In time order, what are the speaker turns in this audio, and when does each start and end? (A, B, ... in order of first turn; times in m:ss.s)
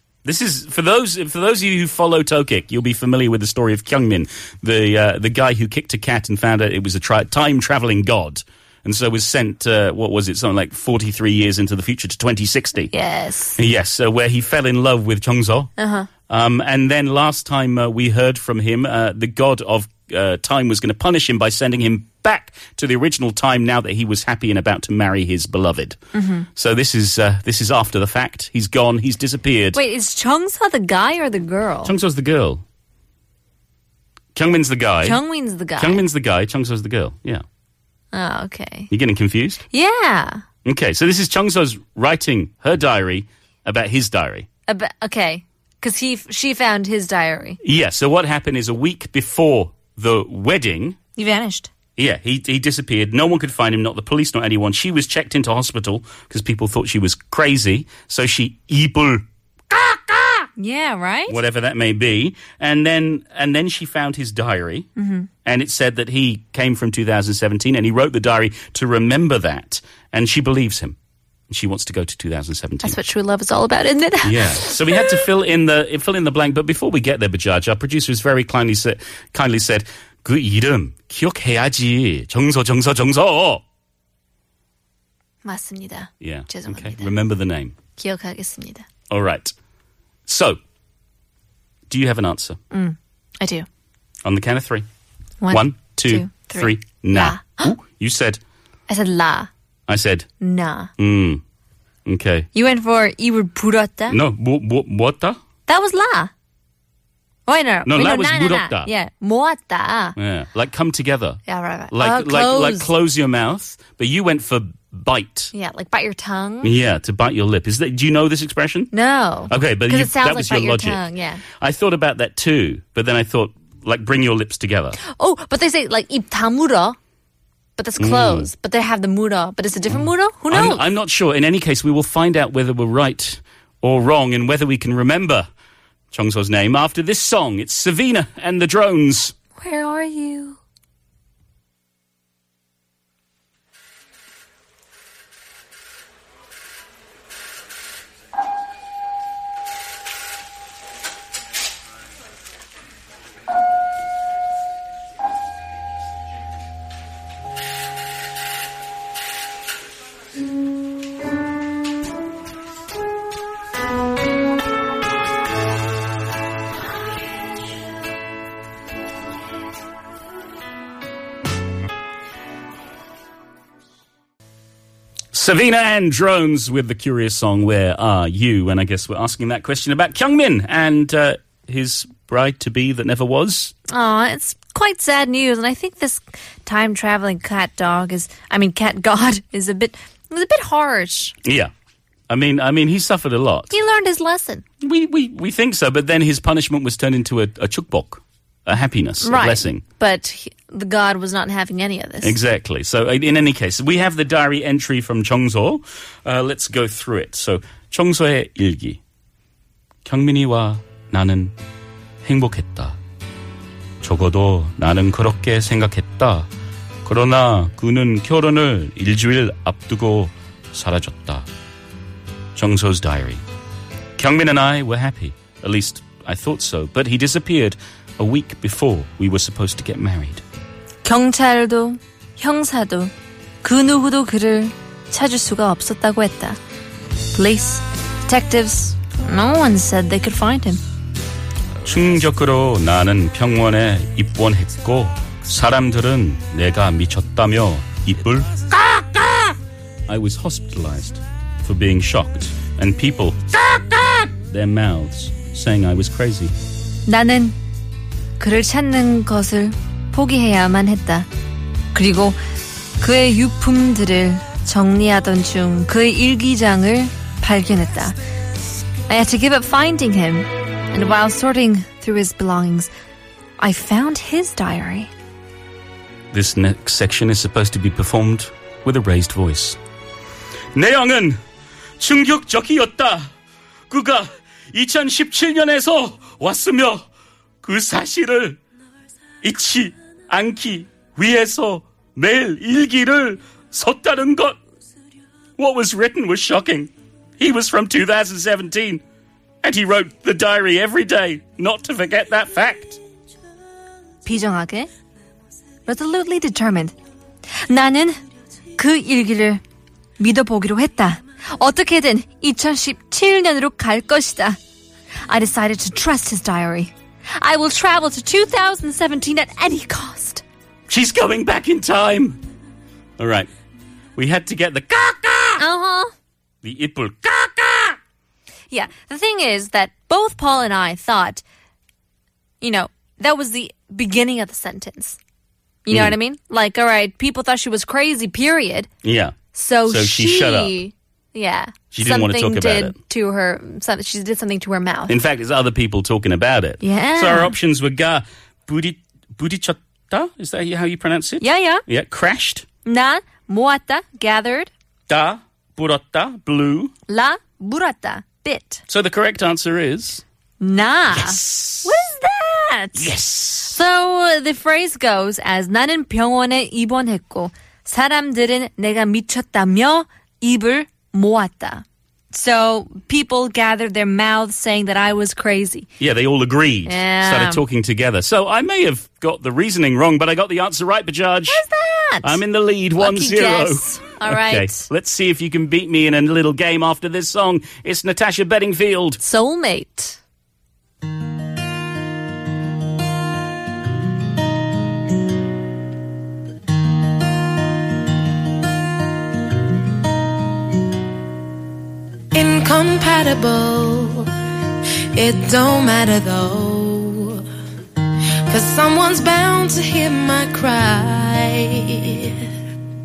0:00.2-0:12.9 A
0:12.9-0:13.6 B
0:13.6-0:15.7 A
0:15.8-0:16.1 B
0:16.3-0:26.0 A
0:26.1-0:26.5 B
0:26.5-0:29.8 A
0:29.7-0:31.9 B
0:31.8-0:32.6 A
0:34.3-0:35.2 A
0:35.0-0:36.1 B
0:35.8-0:37.4 A
0:38.1-0:38.9 B
0:38.9-0:39.6 A
0:39.7-0:40.4 B
0:40.6-0:44.5 A
0:44.7-0:47.6 B
0:47.6-0:51.0 A
0:51.2-0:51.7 B
0:52.0-1:00.4 A
1:00.6-1:01.4 B
1:01.3-1:04.9 A
1:05.0-1:05.3 B
1:05.4-1:11.0 A
1:11.5-1:13.0 A
1:12.8-1:15.2 B
1:14.2-1:23.6 A
1:25.4-1:27.1 B
1:26.2-1:27.8 A
1:28.0-1:28.9 B
1:29.1-1:29.5 A
1:30.3-1:30.6 A
1:31.9-1:32.6 A
1:32.7-1:33.7 B
1:34.2-1:34.9 A
1:35.4-1:37.8 B
1:35.5-1:38.4 A
1:38.9-1:39.5 B
1:39.9-1:40.3 A
1:40.4-1:40.9 B
1:41.0-1:41.4 A
1:42.1-1:42.5 A
1:42.5-1:44.2 B
1:44.1-1:45.4 A
1:45.6-1:46.3 B
1:47.4-1:50.2 B
1:47.8-1:48.9 A
1:50.2-1:51.4 A
1:51.4-1:52.9 B
1:51.9-1:55.5 A
1:55.5-1:56.7 B
1:56.6-1:58.9 A
1:58.9-2:01.4 B
1:59.5-2:01.0 A
2:01.6-2:05.0 A
2:05.0-2:07.0 B
2:07.8-2:10.8 B
2:08.0-2:08.5 A
2:09.9-2:15.5 A
2:16.1-2:19.3 A
2:19.6-2:20.6 B
2:55.3-3:03.7 A
3:03.9-3:11.3 B
3:11.4-3:11.7 A
3:12.3-3:13.7 A
3:13.7-3:14.6 B
3:14.8-3:19.8 A
3:19.2-3:22.4 B
3:22.2-3:29.0 A
3:30.1-3:31.6 A
3:32.2-3:33.0 A
3:34.0-3:36.5 A
3:37.0-3:41.5 A
3:42.6-3:43.4 A
3:44.2-3:50.4 A
3:51.0-3:53.1 B
3:53.6-3:56.6 B
3:57.3-4:00.8 B
4:01.8-4:09.5 A
4:10.1-4:16.5 A
4:17.1-4:17.6 B
4:18.4-4:21.3 B
4:21.9-4:22.4 B
4:23.0-4:28.2 B
4:29.1-4:32.9 B
4:33.6-4:35.1 B
4:36.3-4:39.8 A
4:40.8-4:41.4 A
4:42.0-4:43.3 A
4:43.9-4:47.0 A
4:47.6-4:48.6 A
4:49.4-4:54.6 A
4:55.6-4:59.0 A
4:59.6-5:03.0 A
5:04.2-5:04.9 B
5:05.9-5:06.9 B
5:07.7-5:08.2 B
5:08.8-5:09.6 B
5:10.2-5:14.6 B
5:15.3-5:20.4 B
5:20.9-5:22.4 A
5:23.2-5:23.5 A
5:24.2-5:25.6 A
5:25.6-5:26.1 B
5:26.6-5:28.0 A
5:28.7-5:31.4 B
5:32.6-5:35.2 B
5:35.8-5:38.9 B
5:35.9-5:36.2 A
5:39.0-5:39.3 A
5:39.5-5:45.2 B
5:39.9-5:40.8 A
5:41.9-5:43.0 A
5:45.1-5:52.7 A
5:46.8-5:47.6 B
5:51.4-5:51.8 B
5:52.8-5:54.7 B
5:55.1-5:56.9 A
5:57.1-5:58.8 B
5:58.9-6:00.2 A
6:00.6-6:15.9 B
6:01.1-6:01.9 A
6:03.0-6:03.8 A
6:16.0-6:21.6 A
6:16.8-6:17.6 B
6:21.5-6:22.4 B
6:22.2-6:29.2 A
6:23.0-6:24.9 B
6:29.2-6:30.2 B
6:42.3-6:44.3 C
6:45.1-6:47.4 C
6:48.4-6:52.4 C